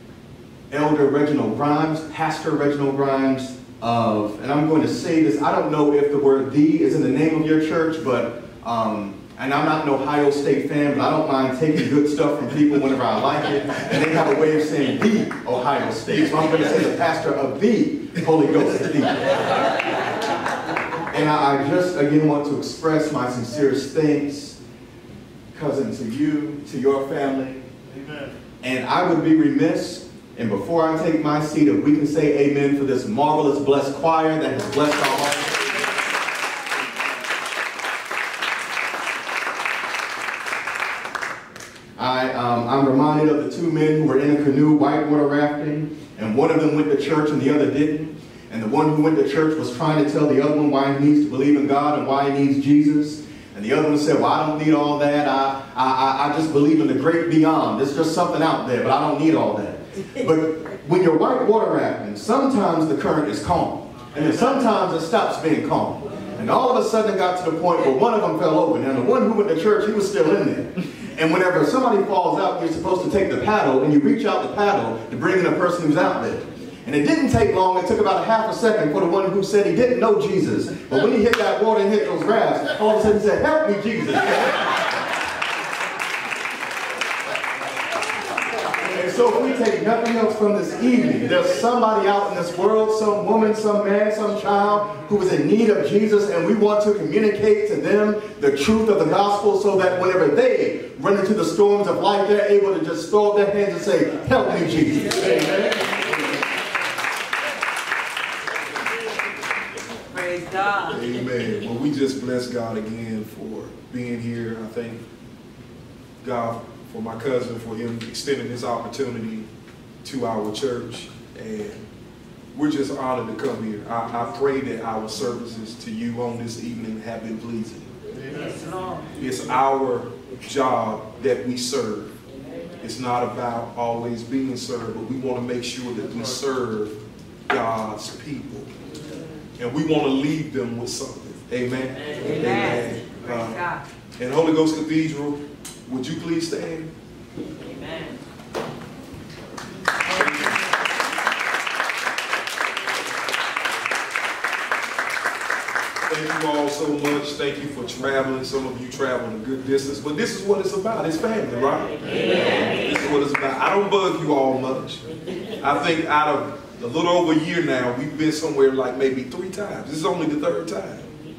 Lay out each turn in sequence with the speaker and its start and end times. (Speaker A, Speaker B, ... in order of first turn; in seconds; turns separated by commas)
Speaker A: 0.7-19.5, Speaker A: 21.1-24.6, Speaker A: 25.5-27.7, Speaker A: 28.6-35.8, Speaker A: 42.0-84.9, Speaker A: 88.9-105.5, Speaker B: 110.1-111.0, Speaker C: 110.9-115.0, Speaker C: 116.2-119.5, Speaker C: 120.0-121.8, Speaker C: 122.5-127.9, Speaker B: 128.3-129.2, Speaker C: 129.2-132.2, Speaker C: 132.8-137.0, Speaker C: 137.5-138.7, Speaker C: 139.6-143.6, Speaker B: 142.2-143.8, Speaker C: 144.2-146.9, Speaker C: 150.1-150.6, Speaker C: 156.1-161.9, Speaker C: 162.6-165.0, Speaker C: 165.6-171.1